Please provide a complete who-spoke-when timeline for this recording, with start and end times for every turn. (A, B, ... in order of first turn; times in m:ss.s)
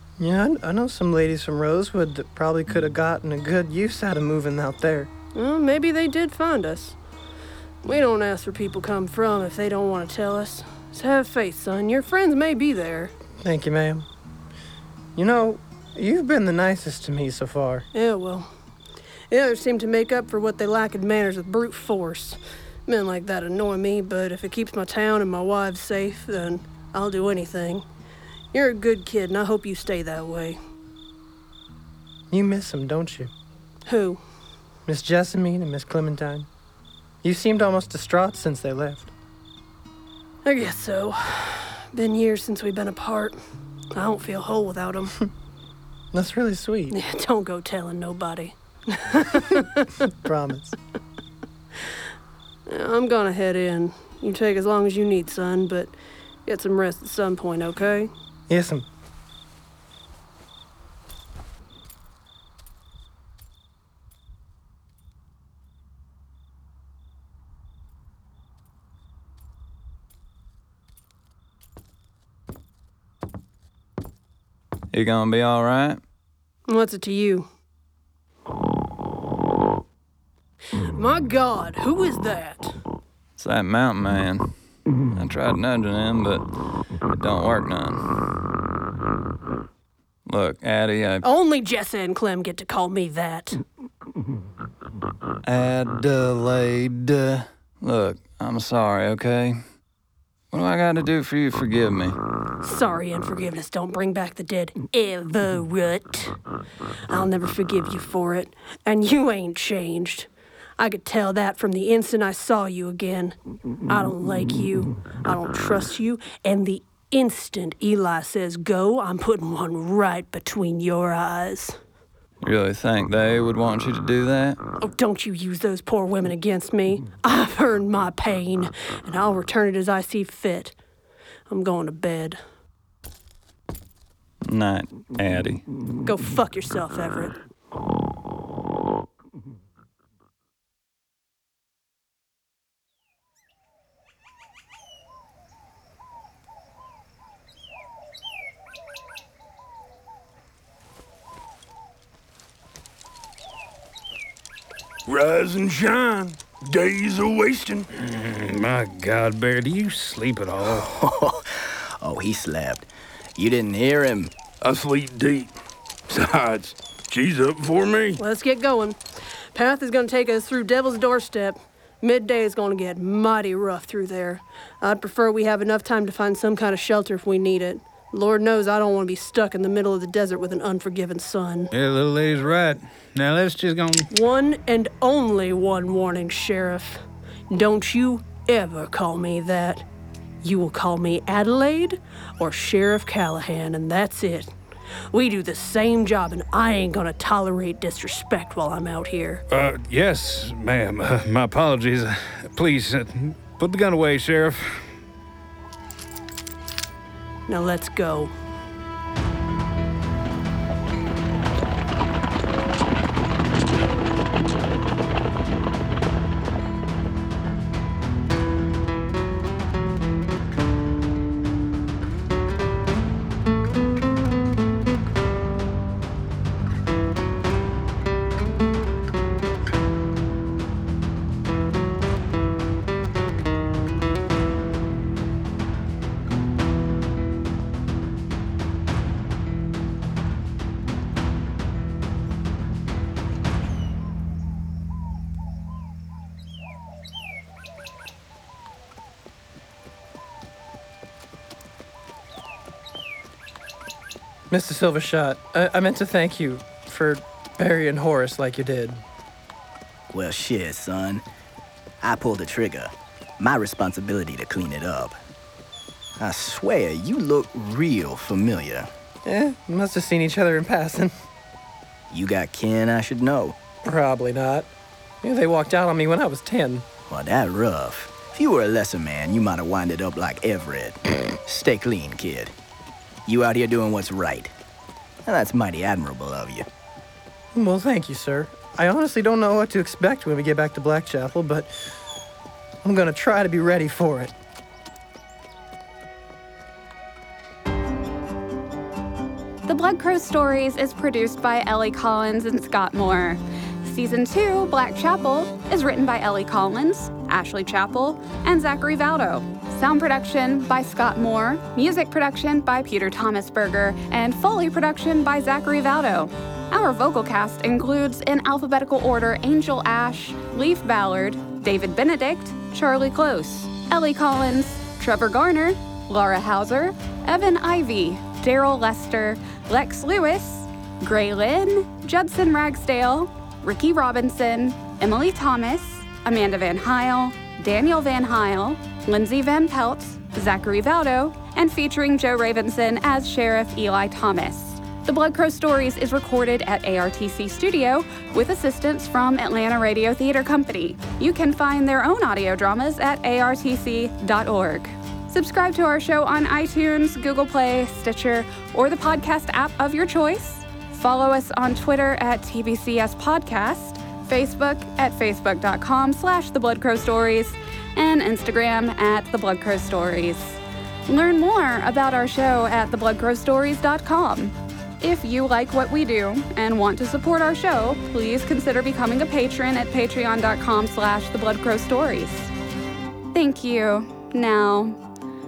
0:00.2-0:05.1 A
0:05.4-0:07.0 B
0:07.8-0:13.1 B
0:13.4-0:14.1 A
0:15.2-0:17.9 A
0:17.9-0:18.5 B
0:19.3-0:27.8 B
0:28.5-0:30.6 B
0:32.3-0:33.3 A
0:33.9-0:34.2 B
0:34.9-0:36.5 A
0:37.2-0:39.1 A
0:40.4-0:43.4 B
0:43.9-0:45.2 B
0:46.1-0:47.0 A
0:46.9-0:50.0 B
0:50.2-0:50.8 A
0:52.7-0:56.0 B
0:56.5-0:58.1 B
0:58.5-0:58.9 A
1:14.9-1:16.0 C
1:16.7-1:17.5 B
1:20.8-1:22.8 B
1:23.4-1:24.6 C
1:25.1-1:26.5 C
1:27.1-1:28.4 C
1:30.3-1:31.2 C
1:31.2-1:33.6 B
1:35.4-1:39.6 C
1:40.5-1:42.2 C
1:42.6-1:46.4 B
1:47.1-1:53.4 B
1:53.9-2:01.8 B
2:02.4-2:04.6 C
2:04.8-2:10.8 B
2:11.5-2:12.4 B
2:14.5-2:15.6 C
2:16.1-2:17.4 B
2:35.1-2:37.9 D
2:38.0-2:40.9 E
2:40.7-2:44.3 F
2:44.6-2:45.5 D
2:46.1-2:48.2 D
2:48.2-2:49.0 B
2:49.5-3:01.7 B
3:01.7-3:04.1 E
3:04.1-3:09.9 B
3:10.4-3:14.5 B
3:15.1-3:19.4 B
3:19.5-3:24.9 E
3:27.5-3:28.3 B
4:14.5-4:19.0 A
4:20.1-4:21.2 F
4:22.0-4:25.2 F
4:26.2-4:28.9 F
4:29.2-4:31.1 A
4:32.1-4:33.6 F
4:33.8-4:34.7 A
4:35.2-4:36.9 A
4:37.1-4:42.5 F
4:43.3-4:44.5 F
4:45.3-4:46.7 F
4:47.5-4:51.8 A
4:52.8-4:54.3 A
4:59.7-6:22.5 G
6:23.3-6:25.0 G